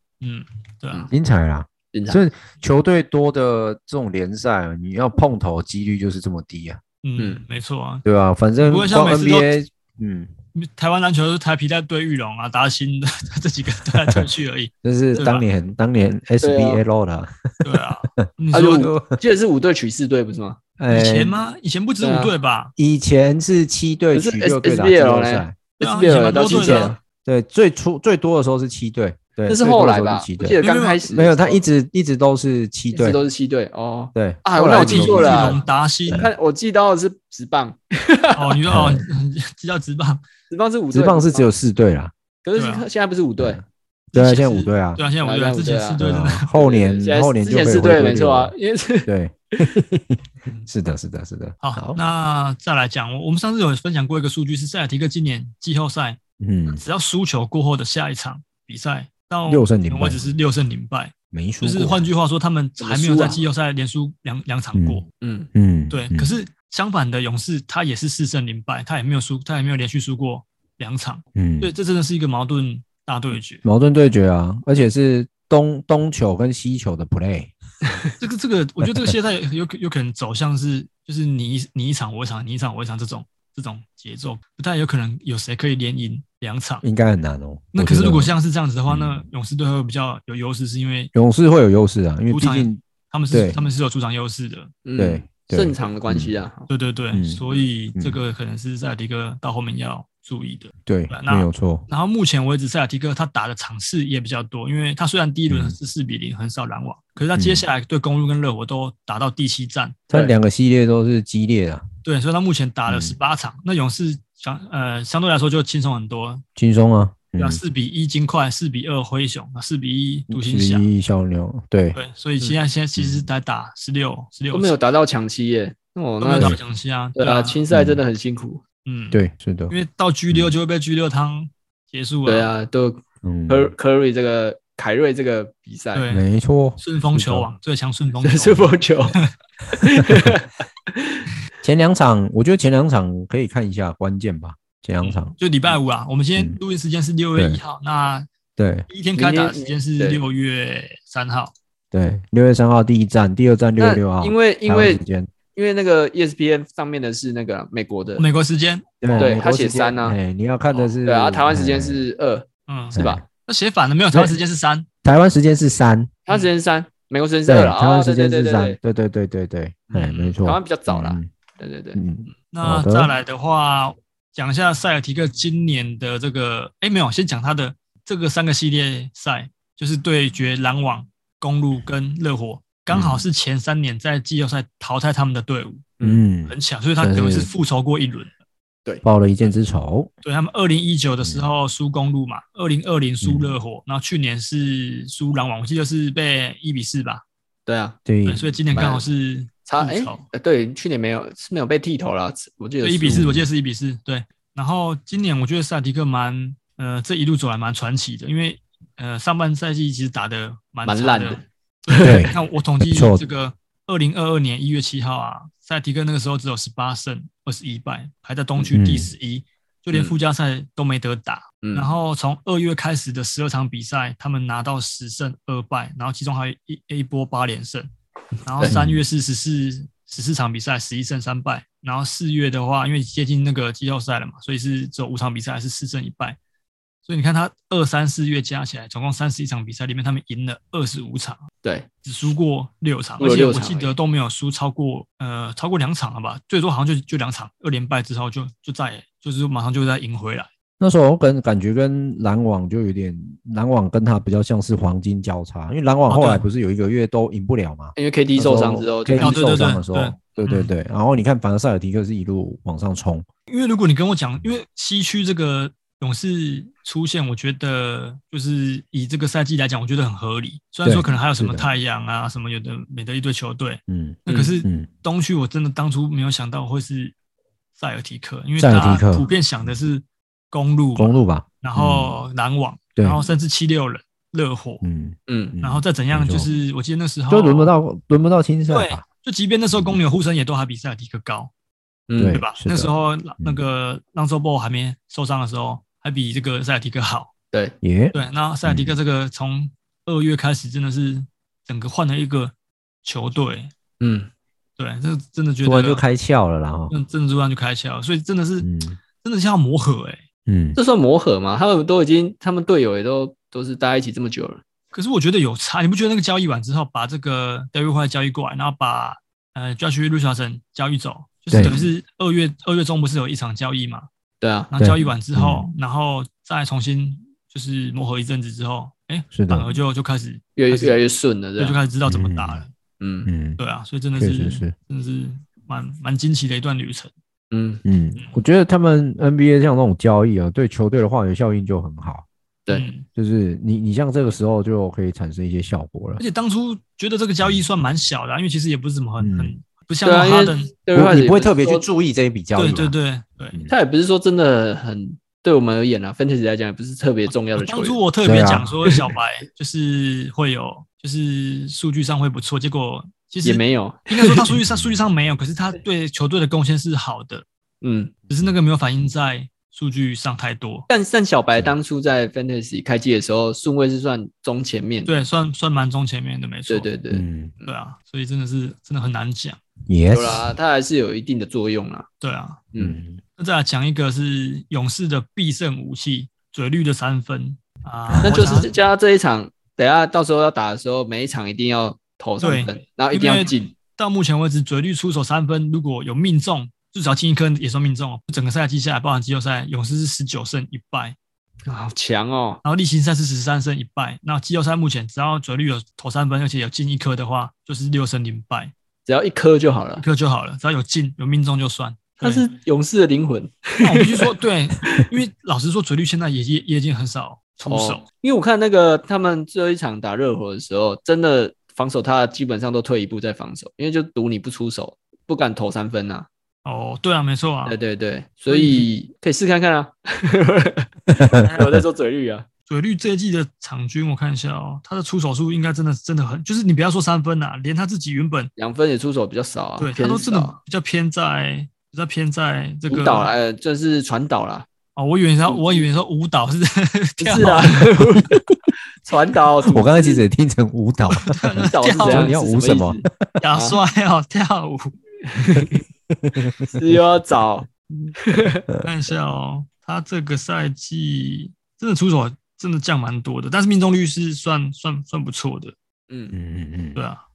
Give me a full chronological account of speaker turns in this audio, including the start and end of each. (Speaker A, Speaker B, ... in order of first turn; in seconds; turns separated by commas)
Speaker A: 0.2-1.1, Speaker B: 1.1-6.8, Speaker C: 1.9-2.2, Speaker A: 7.0-8.0, Speaker B: 8.1-10.3, Speaker A: 8.6-9.5, Speaker A: 10.6-15.4, Speaker B: 14.8-17.6, Speaker C: 16.4-16.8, Speaker A: 17.6-18.9, Speaker B: 18.2-19.2, Speaker C: 18.5-20.6, Speaker B: 20.8-21.3, Speaker A: 20.9-22.7, Speaker C: 22.0-22.3, Speaker B: 22.8-25.6, Speaker C: 24.1-27.0, Speaker A: 25.8-27.0, Speaker B: 26.4-30.6, Speaker C: 29.5-31.6, Speaker A: 30.6-31.0, Speaker B: 31.1-33.2, Speaker C: 32.9-38.6, Speaker B: 34.1-35.6, Speaker A: 34.7-36.3, Speaker A: 38.4-40.2, Speaker B: 38.7-39.0, Speaker C: 40.5-41.5, Speaker B: 40.9-42.1, Speaker C: 42.4-43.6, Speaker A: 42.5-42.9, Speaker B: 43.4-45.0, Speaker A: 44.1-46.5, Speaker C: 45.2-46.0, Speaker B: 46.0-48.5, Speaker C: 46.5-49.7, Speaker B: 49.0-52.0, Speaker A: 51.6-56.2, Speaker B: 56.4-56.8, Speaker A: 56.7-65.0, Speaker B: 59.5-60.3, Speaker B: 61.3-62.1, Speaker C: 62.8-63.4, Speaker B: 64.8-65.0, Speaker C: 65.2-65.5, Speaker B: 65.5-66.3, Speaker A: 65.9-73.6, Speaker B: 71.3-71.7, Speaker B: 73.6-77.5, Speaker A: 78.2-86.8, Speaker B: 78.9-79.1, Speaker B: 86.8-88.3, Speaker A: 87.7-91.1, Speaker B: 88.9-89.2, Speaker B: 91.1-93.6, Speaker A: 92.3-94.7, Speaker C: 94.8-96.7, Speaker B: 95.0-96.3, Speaker A: 96.7-110.0, Speaker B: 97.1-98.2, Speaker B: 100.8-101.9, Speaker B: 105.5-105.8, Speaker B: 107.4-107.6, Speaker B: 110.1-111.8, Speaker A: 112.0-116.4, Speaker B: 112.9-113.2, Speaker B: 116.6-117.6, Speaker A: 117.4-120.9, Speaker B: 120.3-122.0, Speaker A: 121.9-124.8, Speaker B: 123.0-123.3, Speaker C: 124.5-126.6, Speaker A: 126.2-127.6, Speaker C: 127.2-128.6, Speaker B: 127.7-128.0, Speaker A: 128.8-129.2, Speaker B: 129.1-129.7, Speaker A: 129.7-132.5, Speaker C: 132.3-136.1, Speaker B: 133.2-133.7, Speaker A: 135.9-136.2, Speaker B: 136.1-137.5, Speaker A: 136.8-139.3, Speaker C: 138.2-139.2, Speaker C: 139.8-141.3, Speaker B: 141.6-145.8, Speaker A: 145.0-148.3, Speaker B: 147.4-147.6, Speaker B: 148.6-148.9, Speaker A: 148.9-151.5, Speaker C: 149.2-150.2, Speaker B: 151.9-155.3, Speaker C: 153.8-155.0, Speaker C: 155.5-158.2, Speaker A: 158.2-159.2, Speaker B: 159.0-162.0, Speaker C: 159.2-160.2, Speaker C: 161.1-163.2, Speaker A: 162.7-164.9, Speaker B: 162.9-163.2, Speaker B: 164.1-164.4, Speaker B: 165.0-166.1, Speaker C: 166.3-168.8, Speaker B: 167.5-171.3, Speaker C: 169.9-172.1, Speaker A: 170.0-170.3, Speaker B: 171.9-173.1, Speaker A: 172.5-185.9, Speaker B: 182.9-183.2, Speaker C: 186.0-186.2, Speaker B: 186.0-187.5, Speaker A: 186.5-188.3, Speaker B: 189.0-190.1, Speaker A: 190.2-197.2, Speaker B: 191.2-191.5, Speaker B: 193.2-193.6, Speaker C: 197.7-198.0, Speaker B: 198.1-198.5, Speaker A: 198.3-200.2, Speaker C: 198.7-199.0, Speaker C: 199.7-203.3, Speaker A: 202.8-227.9, Speaker B: 203.1-203.5, Speaker C: 210.9-212.3, Speaker B: 212.0-213.2, Speaker B: 218.7-219.1, Speaker C: 221.6-221.9, Speaker A: 228.4-236.4, Speaker B: 228.6-229.0, Speaker A: 237.1-241.4, Speaker A: 242.0-250.5, Speaker C: 243.2-243.9, Speaker B: 250.8-263.3, Speaker A: 256.1-256.4, Speaker C: 258.0-259.4, Speaker A: 259.2-260.7, Speaker A: 263.5-277.1, Speaker B: 270.8-271.7, Speaker B: 273.9-274.9, Speaker C: 274.3-274.5, Speaker A: 277.8-284.8, Speaker B: 278.6-279.3, Speaker B: 281.0-282.2, Speaker B: 284.8-286.5, Speaker C: 285.3-285.6, Speaker A: 285.6-287.8, Speaker B: 287.3-289.0, Speaker A: 288.7-291.5, Speaker C: 292.1-292.4, Speaker B: 292.2-293.6, Speaker A: 292.3-297.3, Speaker B: 297.8-298.9, Speaker A: 298.1-303.7, Speaker C: 304.0-304.3, Speaker A: 304.8-306.0, Speaker B: 305.6-306.9, Speaker A: 306.9-308.7, Speaker B: 308.6-309.0, Speaker A: 309.2-310.2, Speaker B: 310.5-310.8, Speaker C: 310.8-314.6, Speaker A: 314.9-324.1, Speaker B: 321.5-321.9, Speaker C: 324.4-324.7, Speaker A: 324.7-331.0, Speaker B: 324.8-325.7, Speaker B: 329.3-329.8, Speaker C: 330.6-331.8, Speaker A: 331.6-332.7, Speaker B: 332.1-332.6, Speaker C: 333.0-333.3, Speaker B: 333.3-333.6, Speaker A: 333.6-337.1, Speaker B: 334.2-334.7, Speaker C: 337.5-337.8, Speaker B: 337.9-342.3, Speaker A: 342.7-343.1, Speaker B: 343.1-346.2, Speaker A: 346.2-350.7, Speaker B: 349.2-349.5, Speaker C: 350.1-351.9, Speaker B: 350.9-352.9, Speaker A: 352.6-353.6, Speaker C: 353.7-358.0, Speaker A: 357.3-367.4, Speaker B: 358.2-358.7, Speaker C: 363.4-364.5, Speaker C: 367.8-368.1, Speaker A: 368.3-370.9, Speaker C: 370.9-375.1, Speaker A: 375.1-376.9, Speaker C: 376.7-377.7, Speaker B: 377.1-377.5, Speaker A: 377.6-379.6, Speaker B: 379.9-380.5, Speaker C: 380.1-382.1, Speaker A: 382.2-382.7, Speaker B: 382.8-383.2, Speaker A: 383.4-388.7, Speaker B: 388.1-388.4, Speaker C: 388.2-393.7, Speaker A: 392.4-401.2, Speaker C: 401.7-402.6, Speaker A: 402.6-408.7, Speaker C: 409.1-410.0, Speaker A: 410.0-412.5, Speaker C: 412.2-414.3, Speaker A: 413.8-418.0, Speaker C: 417.7-426.3, Speaker A: 426.6-427.8, Speaker C: 427.7-432.5, Speaker A: 428.5-428.9, Speaker A: 431.3-431.7, Speaker A: 432.7-438.5, Speaker C: 438.6-440.6, Speaker A: 439.8-443.3, Speaker C: 442.9-444.7, Speaker A: 445.0-448.0, Speaker C: 445.5-445.9, Speaker C: 447.2-448.4, Speaker C: 449.0-450.2, Speaker B: 449.6-453.1, Speaker A: 451.1-452.4, Speaker C: 451.6-453.8, Speaker A: 453.4-454.9, Speaker C: 455.3-455.8, Speaker B: 456.1-456.7, Speaker C: 456.7-458.6, Speaker A: 458.8-465.8, Speaker C: 466.1-466.4, Speaker B: 466.3-467.0, Speaker A: 467.0-467.2